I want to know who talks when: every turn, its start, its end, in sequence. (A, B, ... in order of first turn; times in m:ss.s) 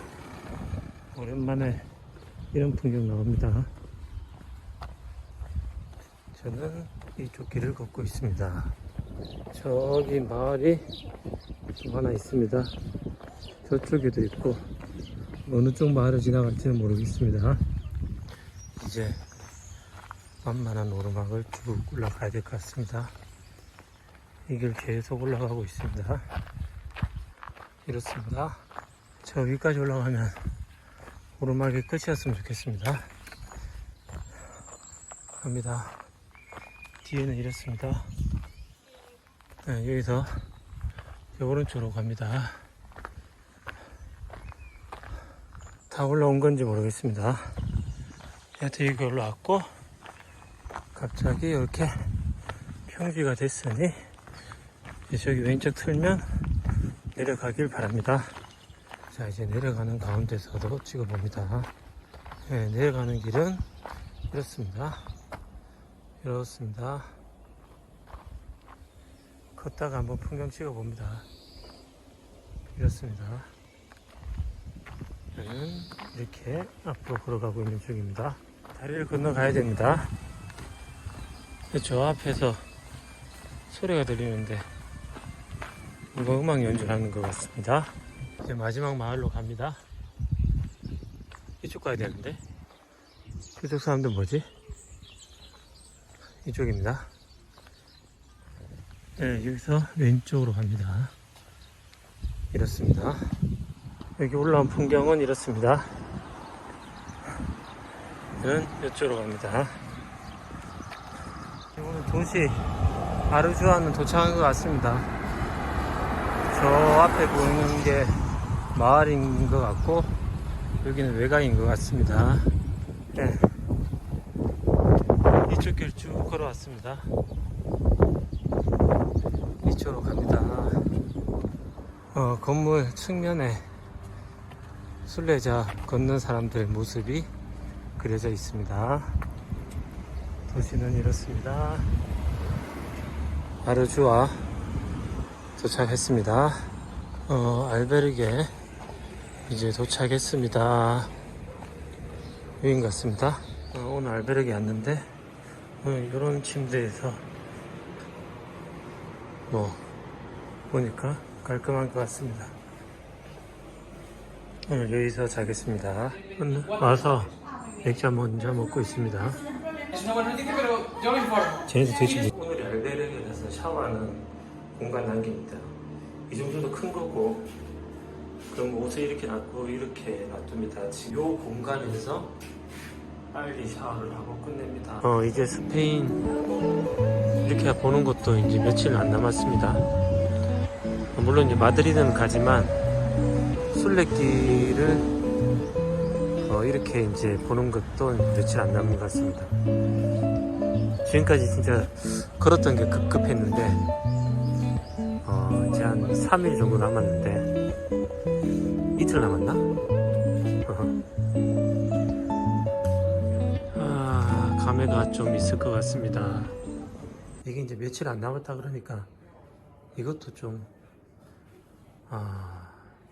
0:01.1-0:01.9 A
0:02.5-0:03.7 A
0:06.3-0:08.8 A
0:09.5-0:10.9 A
0:11.8-0:12.8 A
0:13.6-0:14.6 A
0:15.4-0:17.6 A
0:18.8-0:19.2 A
0:20.4-0:23.1 A
0:24.5-0:26.3 A
0:27.9-0:28.6 A
0:29.2-0:30.5 A
0:31.4-0:33.1 A
0:35.4-0:36.0 A
0:37.0-0:38.1 A
0:39.6-0:40.5 A
0:41.4-0:42.6 A
0:45.9-0:47.6 A
0:48.6-0:49.7 A
0:50.9-0:52.1 A
0:52.9-0:54.1 A
0:55.1-0:56.4 A
0:57.2-0:58.4 A
0:59.1-1:01.7 A
1:02.5-1:03.6 A
1:04.3-1:05.1 A
1:06.2-1:07.2 A
1:09.6-1:11.3 A
1:12.7-1:13.5 A
1:15.4-1:20.1 A
1:21.7-1:22.6 A
1:23.7-1:24.7 A
1:26.1-1:29.8 A
1:31.6-1:32.4 A
1:33.6-1:34.5 A
1:36.4-1:37.1 A
1:39.2-1:41.1 A
1:42.5-1:43.3 A
1:44.2-1:45.9 A
1:48.4-1:49.8 A
1:51.7-1:52.8 A
1:53.3-1:55.1 A
1:56.5-2:00.1 A
2:00.8-2:02.5 A
2:03.1-2:03.6 A
2:05.5-2:07.1 A
2:09.6-2:10.9 A
2:12.1-2:13.7 A
2:15.0-2:17.3 A
2:18.0-2:19.2 A
2:20.5-2:21.9 A
2:23.6-2:24.5 A
2:25.6-2:26.7 A
2:27.3-2:28.5 A
2:29.5-2:31.1 A
2:32.6-2:35.1 A
2:35.8-2:37.3 A
2:39.5-2:39.8 A
2:40.7-2:42.6 A
2:44.7-2:49.5 A
2:51.6-2:55.8 A
2:56.3-2:57.5 A
2:58.5-3:02.3 A
3:03.3-3:06.3 A
3:07.4-3:09.9 A
3:11.2-3:12.8 A
3:13.7-3:15.1 A
3:16.4-3:19.5 A
3:21.0-3:23.9 A
3:25.2-3:27.5 A
3:29.0-3:29.7 A
3:30.6-3:31.0 A
3:33.7-3:36.6 A
3:37.4-3:39.1 A
3:40.0-3:40.7 A
3:42.1-3:42.9 A